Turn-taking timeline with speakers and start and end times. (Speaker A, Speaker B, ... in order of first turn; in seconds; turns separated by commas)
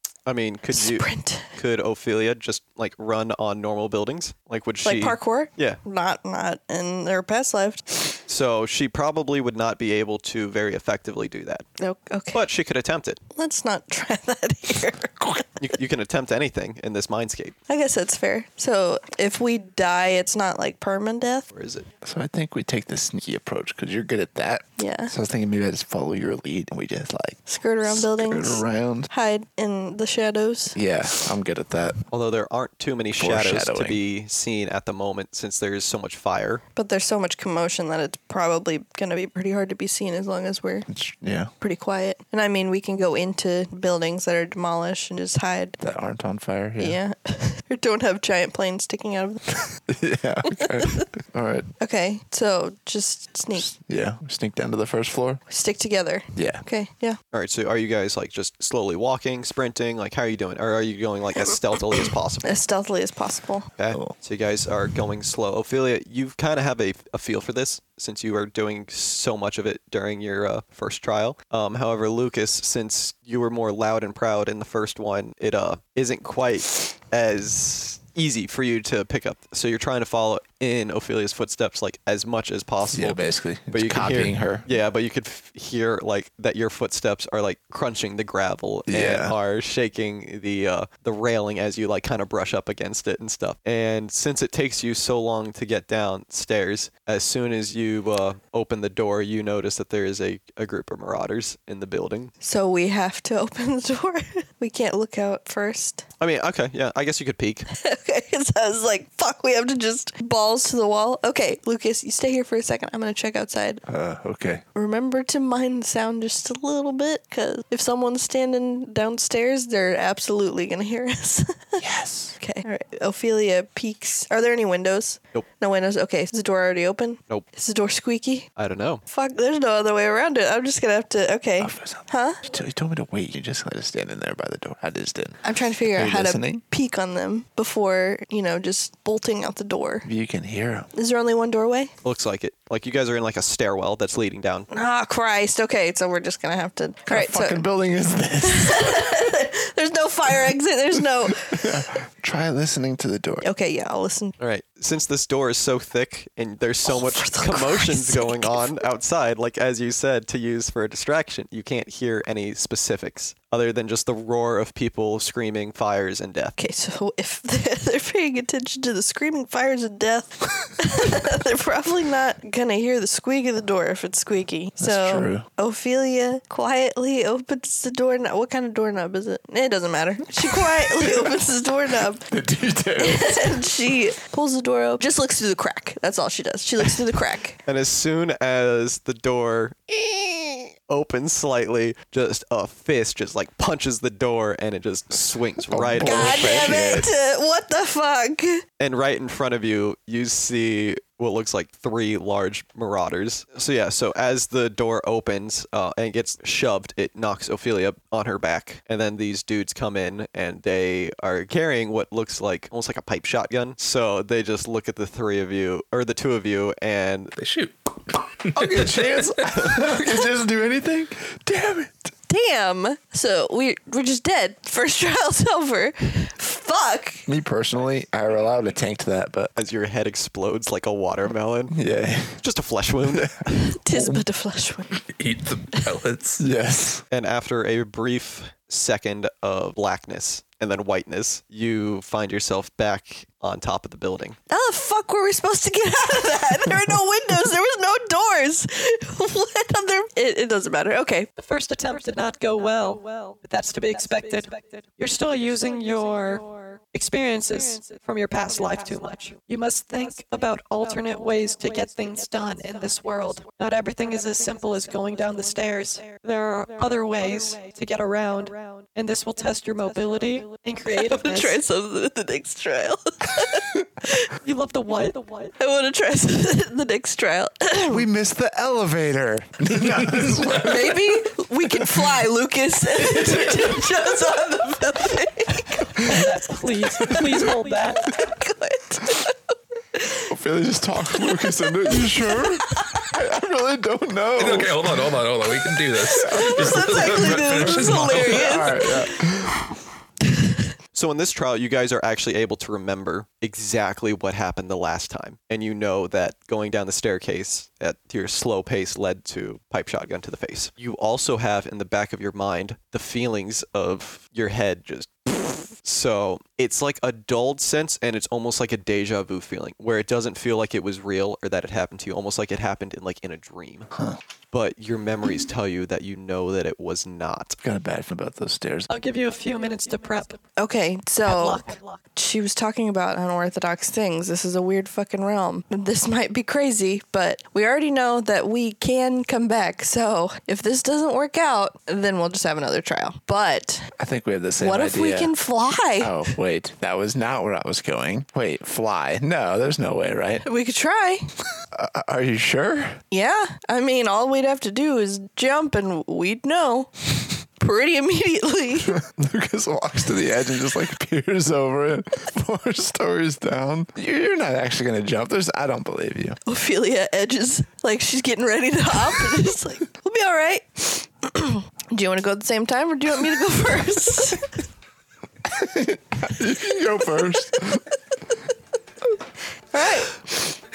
Speaker A: 0.2-5.8, Speaker B: 0.7-1.4, Speaker B: 4.8-8.0, Speaker A: 8.3-11.7, Speaker B: 11.8-12.4, Speaker A: 12.3-13.2, Speaker B: 13.3-15.4, Speaker A: 15.6-17.6, Speaker B: 17.7-21.5, Speaker A: 21.5-21.9, Speaker C: 22.0-29.1, Speaker B: 24.8-25.1, Speaker B: 27.5-30.8, Speaker C: 30.7-32.0, Speaker A: 32.1-36.6, Speaker C: 33.2-34.0, Speaker B: 36.8-40.9, Speaker C: 40.9-41.5, Speaker B: 41.6-45.8, Speaker C: 45.8-47.0, Speaker B: 46.8-49.6, Speaker C: 49.9-51.7, Speaker B: 51.8-53.7, Speaker C: 53.5-55.4, Speaker B: 55.5-57.2, Speaker C: 56.4-56.6, Speaker A: 57.3-62.6, Speaker B: 62.4-63.7, Speaker A: 63.8-102.3, Speaker C: 82.9-84.7, Speaker C: 88.9-89.3, Speaker B: 102.4-106.0, Speaker A: 106.2-107.7, Speaker B: 107.7-113.8, Speaker C: 113.9-114.6, Speaker B: 114.7-121.8, Speaker C: 121.8-122.4, Speaker B: 122.4-128.5, Speaker A: 128.6-129.0, Speaker B: 129.1-132.4, Speaker C: 131.6-136.6, Speaker B: 135.4-140.1, Speaker C: 140.0-140.9, Speaker B: 140.9-141.9, Speaker A: 142.0-144.7, Speaker B: 144.7-147.6, Speaker C: 147.1-149.1, Speaker B: 148.4-151.8, Speaker C: 151.4-153.5, Speaker B: 153.4-154.3, Speaker A: 154.4-166.5, Speaker B: 156.9-158.8, Speaker B: 166.6-182.2, Speaker C: 174.8-175.4, Speaker C: 180.8-181.3, Speaker C: 182.3-183.4, Speaker B: 183.0-187.6, Speaker A: 187.7-197.0, Speaker C: 195.7-197.1, Speaker B: 196.0-198.6, Speaker A: 198.8-217.3, Speaker D: 217.3-219.3, Speaker C: 218.5-222.1, Speaker B: 222.3-227.2, Speaker C: 227.3-229.5, Speaker A: 229.6-231.7, Speaker C: 231.7-232.4, Speaker A: 232.4-233.7, Speaker C: 233.0-233.3, Speaker B: 233.6-234.9, Speaker C: 233.9-234.2, Speaker D: 235.1-236.4, Speaker C: 236.4-237.0, Speaker A: 237.1-244.4, Speaker B: 244.5-251.3, Speaker E: 251.3-271.6, Speaker B: 270.9-274.3, Speaker E: 274.4-275.5, Speaker B: 275.6-278.1, Speaker C: 277.9-281.0, Speaker D: 280.1-280.4, Speaker B: 280.5-286.2, Speaker E: 286.1-288.0, Speaker B: 288.1-289.3, Speaker B: 289.9-290.3, Speaker C: 290.3-294.9, Speaker B: 291.4-292.9, Speaker D: 294.4-298.7, Speaker C: 296.2-299.6, Speaker B: 296.2-299.2, Speaker A: 300.9-323.9, Speaker A: 324.5-327.6, Speaker C: 327.6-328.9, Speaker E: 328.9-330.4, Speaker B: 330.6-343.9, Speaker E: 331.2-332.0, Speaker C: 344.0-345.3, Speaker B: 344.6-346.2, Speaker C: 346.0-350.4, Speaker B: 350.4-351.2, Speaker C: 351.7-353.0, Speaker B: 353.1-359.0, Speaker C: 358.9-366.4, Speaker B: 366.4-374.4, Speaker C: 375.5-377.8, Speaker B: 379.7-380.2